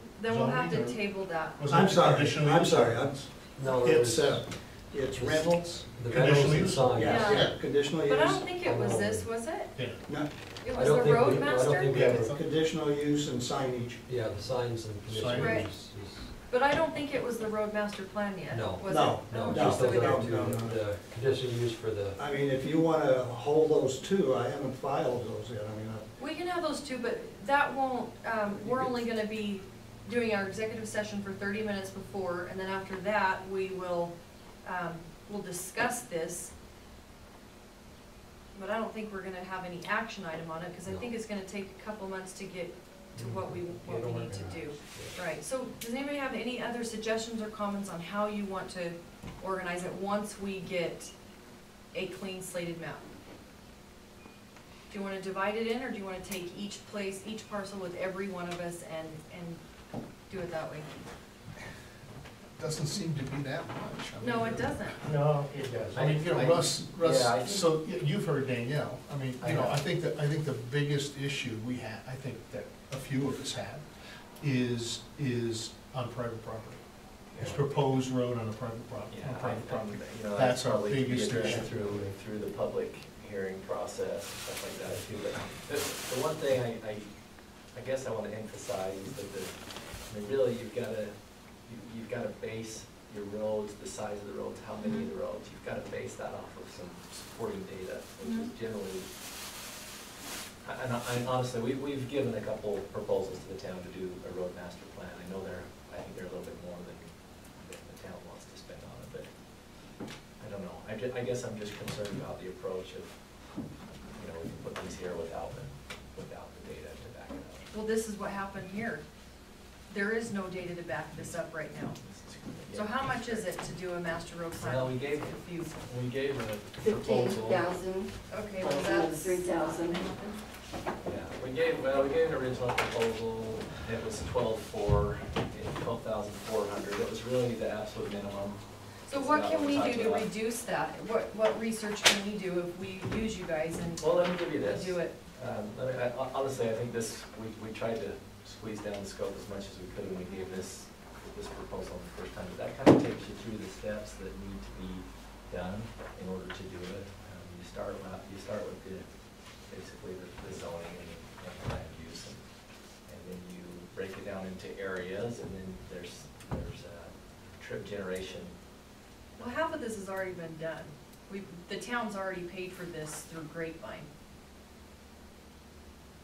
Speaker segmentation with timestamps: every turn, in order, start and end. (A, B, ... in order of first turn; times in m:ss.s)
0:00.2-0:01.7 A
0:00.2-0:01.0 B
0:01.6-0:03.2 B
0:01.7-0:08.6 C
0:03.5-0:04.4 D
0:05.1-0:07.4 D
0:06.1-0:07.6 B
0:07.0-0:09.7 A
0:08.6-0:09.3 D
0:09.7-0:10.0 B
0:10.6-0:11.9 A
0:10.7-0:12.3 D
0:11.9-0:12.4 B
0:12.2-0:14.0 C
0:14.1-0:16.3 D
0:15.1-0:15.7 B
0:15.3-0:15.7 A
0:16.5-0:20.3 A
0:18.5-0:22.2 D
0:18.9-0:20.8 C
0:22.2-0:26.0 C
0:26.2-0:36.5 A
0:28.6-0:29.0 C
0:38.5-0:51.1 A
0:43.2-0:45.2 D
0:51.9-0:53.1 A
0:54.9-0:59.6 A
1:00.3-1:01.0 A
1:02.6-1:05.2 B
1:04.2-1:05.0 A
1:05.5-1:06.0 D
1:05.9-1:07.7 E
1:05.9-1:13.8 B
1:09.4-1:09.7 E
1:14.4-1:16.8 B
1:17.3-1:17.7 E
1:17.4-1:21.7 B
1:19.1-1:27.1 E
1:27.7-1:39.1 E
1:34.8-1:35.1 A
1:38.2-1:38.5 A
1:40.6-1:49.3 E
1:50.4-1:53.1 E
1:54.1-1:57.7 E
1:57.7-1:59.0 A
1:59.9-2:02.0 A
2:02.0-2:03.6 E
2:02.7-2:05.8 A
2:04.6-2:07.8 E
2:06.8-2:10.2 F
2:08.3-2:10.4 A
2:11.0-2:20.3 E
2:19.1-2:25.1 A
2:24.0-2:39.1 E
2:39.7-2:42.4 E
2:43.1-2:48.5 E
2:49.4-2:54.1 A